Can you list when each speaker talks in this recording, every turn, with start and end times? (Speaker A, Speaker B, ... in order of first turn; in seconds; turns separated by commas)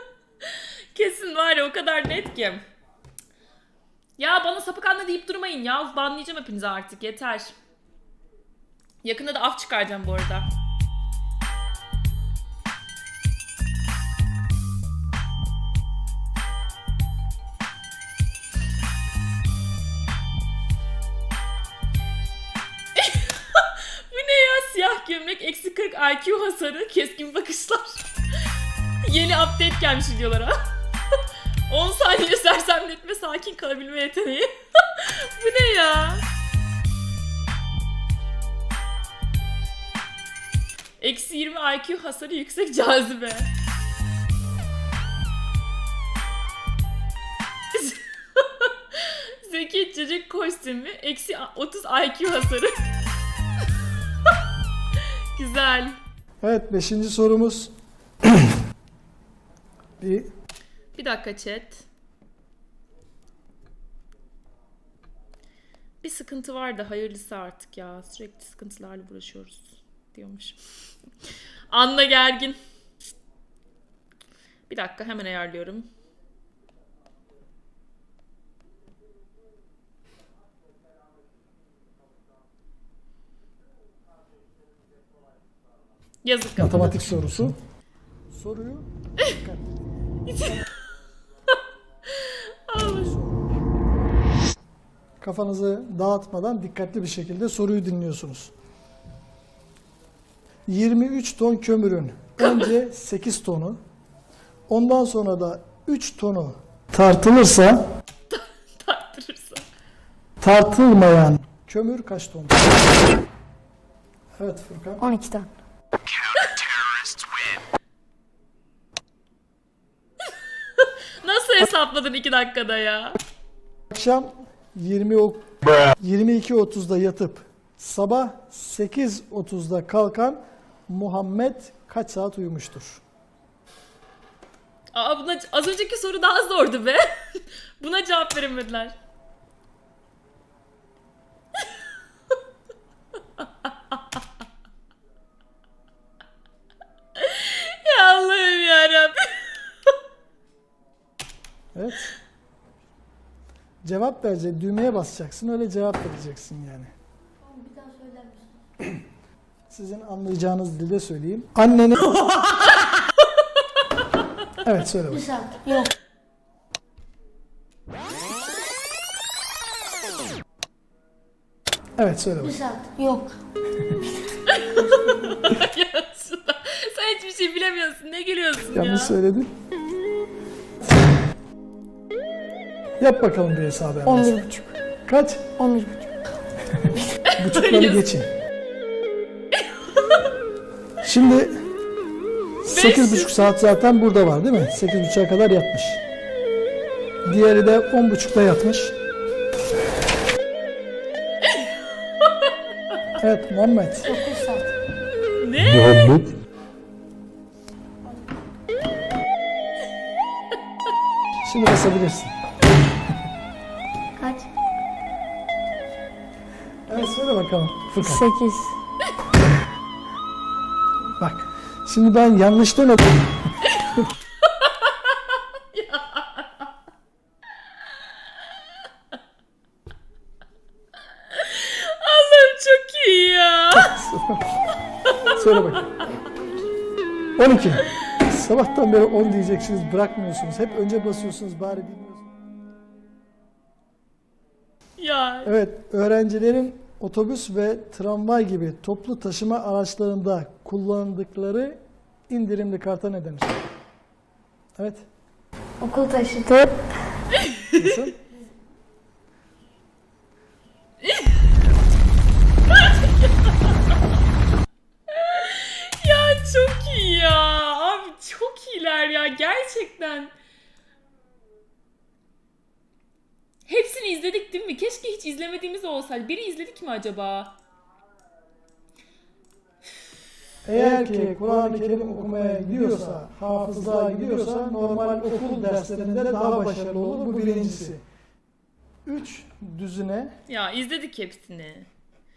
Speaker A: 0.4-2.6, Speaker A: 4.2-7.5, Speaker A: 9.0-10.5, Speaker A: 23.0-28.1, Speaker A: 29.0-30.5, Speaker A: 31.1-36.2, Speaker A: 41.0-43.5, Speaker A: 47.7-52.8, Speaker A: 55.0-56.0, Speaker B: 56.4-58.5, Speaker B: 60.0-60.3, Speaker A: 60.9-61.9, Speaker A: 66.0-70.6, Speaker A: 71.7-72.6, Speaker A: 74.7-75.9, Speaker A: 86.2-87.5, Speaker B: 86.6-87.6, Speaker B: 88.3-89.8, Speaker A: 90.3-90.7, Speaker A: 91.5-93.1, Speaker B: 92.8-93.6, Speaker B: 95.2-98.5, Speaker B: 100.7-103.8, Speaker A: 102.4-102.7, Speaker B: 104.7-107.8, Speaker A: 108.3-109.7, Speaker B: 110.4-112.8, Speaker B: 114.4-115.0, Speaker C: 115.0-115.5, Speaker A: 120.8-123.2, Speaker B: 123.9-133.0, Speaker A: 134.9-138.9, Speaker A: 143.4-144.0, Speaker A: 147.2-149.9, Speaker B: 151.7-152.1, Speaker B: 153.8-156.9, Speaker C: 157.4-158.6, Speaker B: 159.7-162.2, Speaker B: 164.6-165.3, Speaker C: 165.1-165.9, Speaker B: 172.0-172.6, Speaker C: 172.4-173.3, Speaker A: 174.4-179.2, Speaker B: 178.7-179.5, Speaker B: 183.0-184.4, Speaker C: 184.0-184.7, Speaker B: 185.1-185.5, Speaker C: 185.5-186.2, Speaker B: 186.7-188.3, Speaker A: 187.3-188.1, Speaker A: 189.6-190.3, Speaker B: 191.0-191.6, Speaker B: 192.6-196.0, Speaker A: 192.7-193.5, Speaker B: 197.2-198.9, Speaker A: 201.4-202.5, Speaker B: 203.2-204.1, Speaker C: 204.0-204.7, Speaker A: 205.4-206.3, Speaker B: 211.4-212.3, Speaker C: 214.2-214.5, Speaker B: 216.9-218.2, Speaker C: 218.0-218.7, Speaker B: 221.2-223.5, Speaker A: 223.6-226.7, Speaker A: 231.3-233.9, Speaker B: 233.7-234.6, Speaker B: 235.3-235.9, Speaker B: 237.4-242.3, Speaker A: 245.0-245.5, Speaker B: 245.4-251.8, Speaker B: 252.3-253.6, Speaker B: 254.8-255.1, Speaker C: 255.8-256.8, Speaker A: 257.4-257.7, Speaker B: 257.7-258.1, Speaker A: 261.0-261.3, Speaker A: 262.7-263.7, Speaker A: 265.1-270.3, Speaker A: 273.6-277.6, Speaker B: 280.6-288.0, Speaker B: 289.1-290.3, Speaker A: 290.5-291.9